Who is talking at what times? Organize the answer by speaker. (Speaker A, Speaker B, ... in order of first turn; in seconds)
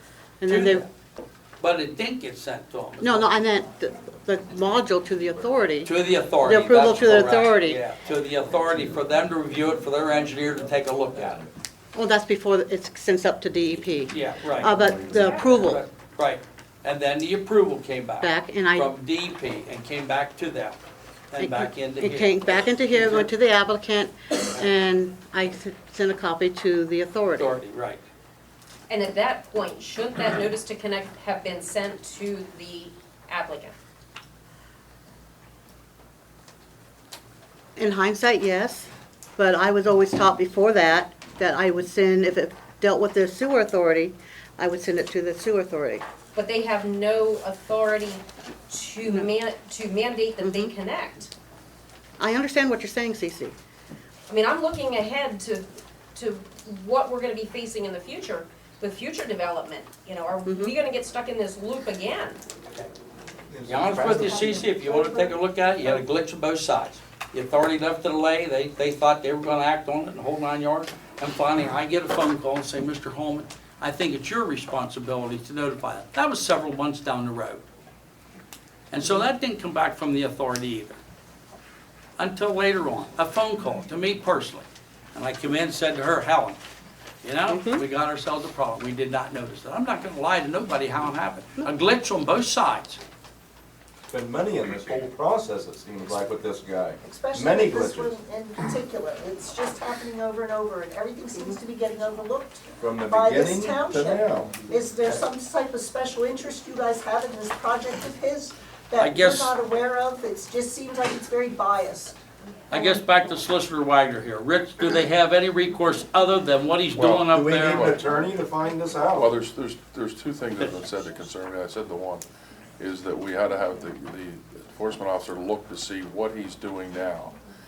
Speaker A: 0.4-0.8, 3.0-7.8, 11.9-15.8, 18.2-18.9, 21.4-27.6, 37.8-46.0, 50.4-50.7, 52.2-53.5, 60.5-60.8, 87.5-87.8
Speaker B: 0.5-0.8, 1.6-3.3, 5.8-11.5, 14.1-14.7, 15.5-20.8, 21.3-23.3, 27.4-28.0, 63.7-77.6, 78.9-81.0, 82.2-86.6, 87.2-93.0, 109.0-109.6, 112.7-117.9
Speaker C: 14.9-15.6, 28.9-33.7, 46.3-51.3, 54.3-62.4
Speaker D: 63.5-64.6, 94.1-98.2, 102.8-104.7, 117.2-119.3
Speaker E: 63.8-66.0, 97.0-112.2
Speaker F: 117.0-118.1, 119.1-122.2, 122.8-127.3